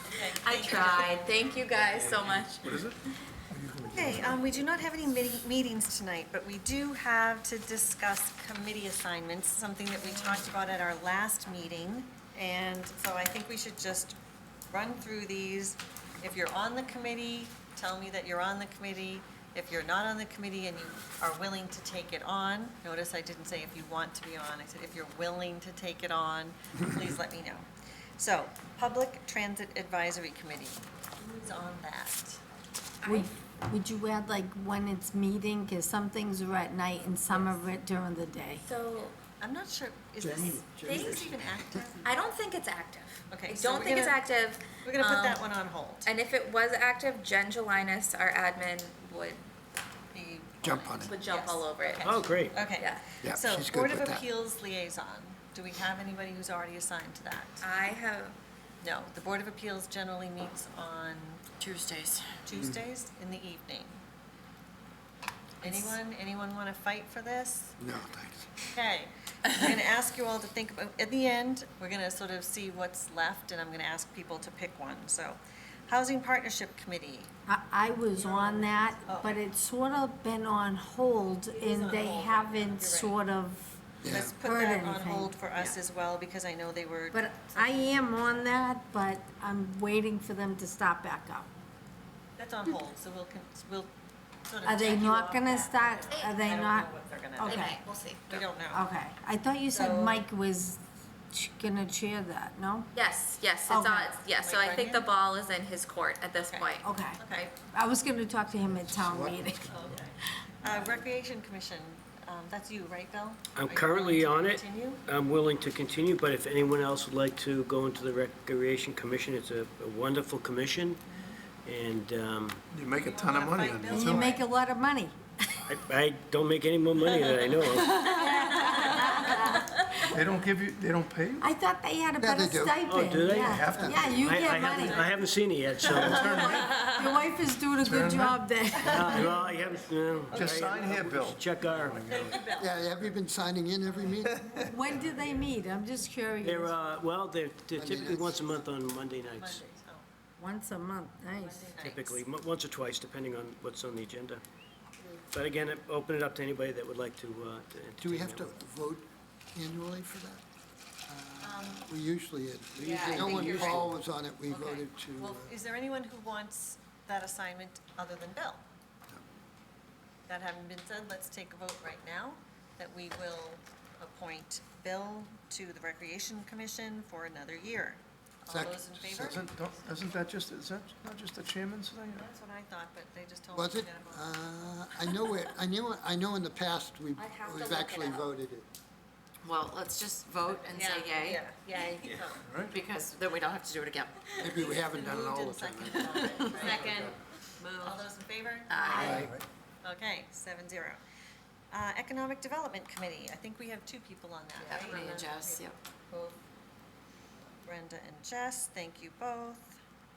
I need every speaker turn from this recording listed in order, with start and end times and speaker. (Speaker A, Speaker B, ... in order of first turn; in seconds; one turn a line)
Speaker A: 0.1-1.2
Speaker B: 0.2-2.7
Speaker C: 1.9-3.0
Speaker C: 3.5-4.5
Speaker A: 3.9-14.2
Speaker A: 14.7-32.4
Speaker B: 33.0-33.3
Speaker D: 33.0-38.6
Speaker B: 38.6-39.2
Speaker A: 39.4-42.1
Speaker E: 40.2-41.8
Speaker B: 40.9-41.2
Speaker B: 42.0-45.4
Speaker A: 43.3-44.2
Speaker A: 44.8-46.1
Speaker B: 46.0-49.4
Speaker A: 50.1-57.7
Speaker E: 50.6-51.2
Speaker B: 51.1-53.0
Speaker F: 52.0-52.7
Speaker E: 53.2-54.2
Speaker B: 57.6-58.4
Speaker A: 58.8-61.4
Speaker G: 61.6-62.3
Speaker A: 62.5-64.0
Speaker E: 62.5-62.8
Speaker A: 65.6-67.8
Speaker E: 67.8-68.5
Speaker A: 68.7-77.3
Speaker D: 77.5-85.4
Speaker A: 78.2-79.5
Speaker A: 81.5-83.2
Speaker E: 84.0-84.3
Speaker A: 84.1-88.7
Speaker D: 87.1-91.5
Speaker A: 92.4-93.9
Speaker A: 94.5-97.6
Speaker D: 94.6-97.8
Speaker B: 97.5-98.2
Speaker A: 98.3-98.9
Speaker D: 98.7-100.8
Speaker A: 99.7-100.2
Speaker D: 101.3-102.9
Speaker B: 103.0-107.5
Speaker D: 103.7-104.2
Speaker A: 104.4-105.1
Speaker A: 106.4-107.5
Speaker D: 106.8-109.7
Speaker E: 108.5-110.0
Speaker A: 109.6-115.0
Speaker F: 113.5-121.0
Speaker F: 121.7-122.6
Speaker C: 122.7-124.3
Speaker A: 122.9-124.5
Speaker D: 123.9-125.7
Speaker F: 125.7-128.1
Speaker D: 127.6-130.1
Speaker A: 128.1-129.1
Speaker C: 130.1-131.5
Speaker D: 131.4-135.1
Speaker E: 132.2-132.8
Speaker F: 132.8-136.7
Speaker C: 133.4-134.8
Speaker E: 133.7-134.2
Speaker A: 134.7-135.2
Speaker C: 135.8-137.0
Speaker D: 136.1-139.3
Speaker A: 136.6-136.8
Speaker C: 137.8-139.2
Speaker F: 138.8-142.2
Speaker A: 139.1-139.6
Speaker A: 140.3-141.0
Speaker C: 140.3-143.1
Speaker A: 142.1-142.8
Speaker E: 142.6-144.6
Speaker C: 144.2-144.7
Speaker D: 144.6-146.8
Speaker F: 146.4-149.6
Speaker E: 147.7-148.6
Speaker A: 148.2-148.6
Speaker A: 149.2-150.1
Speaker D: 150.4-151.8
Speaker A: 151.4-152.2
Speaker F: 151.8-154.4
Speaker F: 155.3-158.6
Speaker E: 158.0-160.4
Speaker E: 161.1-165.5
Speaker A: 161.5-161.7
Speaker B: 162.8-163.9
Speaker F: 163.1-163.9
Speaker A: 164.5-168.7
Speaker A: 170.3-179.4
Speaker E: 178.5-179.5
Speaker C: 179.1-182.3
Speaker A: 182.1-184.3
Speaker E: 183.5-188.7
Speaker B: 187.2-188.3
Speaker G: 189.4-194.3
Speaker A: 190.4-192.4
Speaker B: 190.8-191.1
Speaker C: 192.4-192.8
Speaker E: 194.4-197.2
Speaker A: 194.6-197.2
Speaker G: 196.1-198.0
Speaker A: 197.7-199.2
Speaker G: 198.7-199.3
Speaker E: 199.0-199.4
Speaker C: 199.2-199.4
Speaker A: 199.8-201.0
Speaker A: 201.7-205.7
Speaker G: 204.6-205.8
Speaker A: 207.7-209.8